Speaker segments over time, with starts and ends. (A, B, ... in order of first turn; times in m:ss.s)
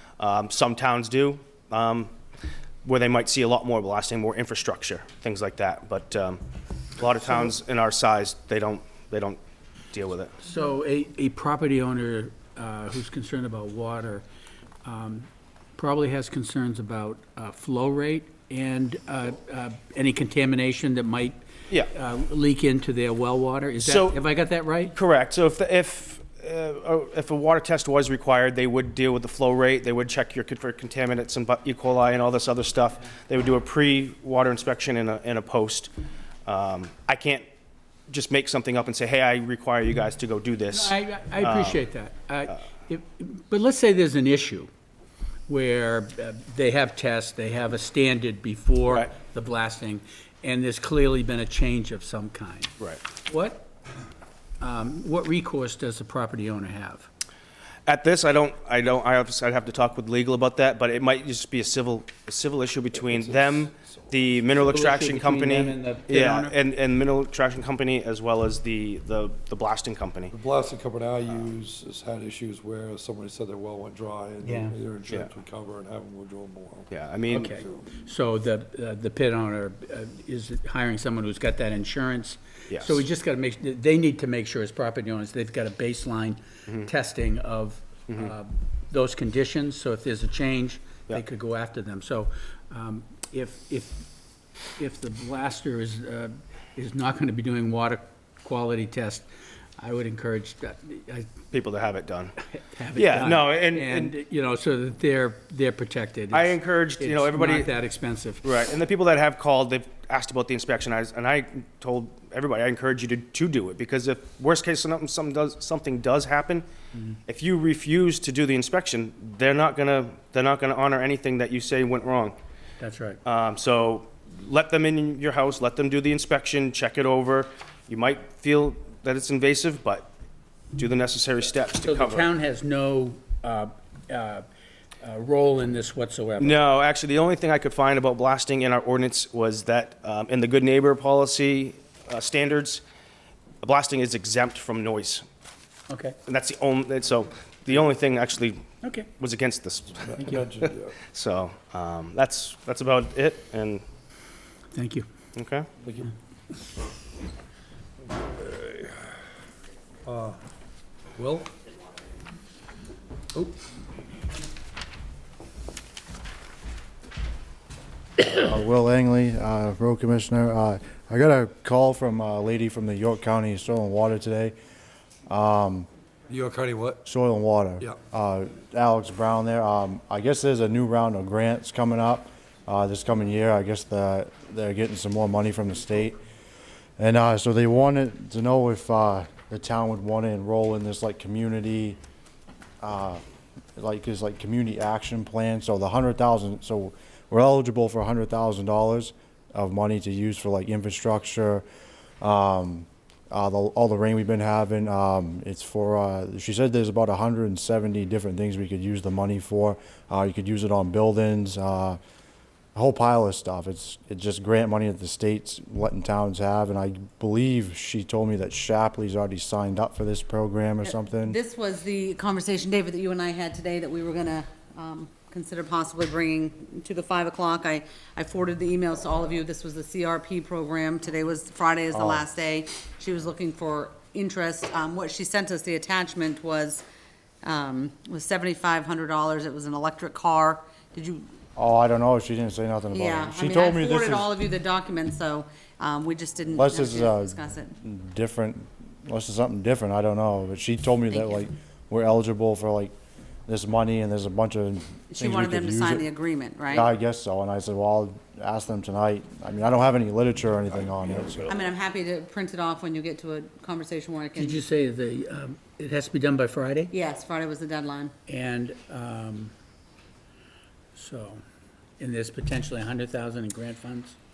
0:00.2-0:02.1 A
0:02.8-0:06.4 A
0:07.0-0:09.4 A
0:09.9-0:10.3 A
0:10.4-0:14.2 B
0:14.8-0:24.9 B
0:23.8-0:24.2 A
0:24.9-0:35.9 A
0:36.5-0:37.4 A
0:38.1-0:41.8 A
0:40.7-0:44.7 B
0:45.5-0:53.7 B
0:54.6-0:57.1 B
0:57.9-1:10.3 A
1:03.0-1:04.7 C
1:04.6-1:06.6 B
1:10.3-1:16.9 C
1:14.4-1:14.8 B
1:16.9-1:17.6 A
1:17.3-1:34.0 B
1:17.6-1:17.9 C
1:22.7-1:23.0 A
1:34.8-1:39.3 B
1:39.8-1:41.4 B
1:41.5-1:42.3 A
1:42.5-1:48.5 B
1:43.0-1:44.1 A
1:46.3-1:47.7 A
1:48.4-1:56.7 A
1:56.9-1:57.2 B
1:57.3-2:02.4 A
2:02.8-2:03.2 B
2:03.2-2:10.1 A
2:10.7-2:12.3 A
2:11.8-2:14.4 B
2:15.0-2:16.6 B
2:16.4-2:22.8 A
2:23.6-2:25.2 A
2:25.9-2:26.2 B
2:26.3-2:28.6 A
2:28.8-2:29.1 B
2:29.2-2:33.8 A
2:30.0-2:31.0 C
2:34.7-2:35.1 B
2:35.4-2:35.7 A
2:35.8-2:36.1 C
2:38.1-2:39.1 C
2:40.0-2:40.4 C
2:41.2-2:41.5 C
2:48.2-2:54.5 D
2:55.3-2:55.9 D
2:56.3-2:57.0 C
2:57.0-3:06.2 D
3:07.0-3:12.0 D
3:12.8-3:13.2 D
3:13.8-3:21.6 D
3:22.2-3:32.0 D
3:32.7-3:41.4 D
3:40.8-3:56.8 E
3:51.9-3:52.2 D
3:57.4-4:01.3 E
4:01.6-4:04.3 D
4:02.9-4:07.7 E
4:06.5-4:12.9 D
4:11.1-4:11.4 E
4:13.5-4:16.1 D
4:15.1-4:16.9 E
4:16.7-4:21.6 D
4:21.5-4:24.6 E
4:24.3-4:26.9 B
4:26.9-4:28.1 E
4:28.3-4:29.5 B
4:30.9-4:31.4 B
4:32.0-4:34.2 B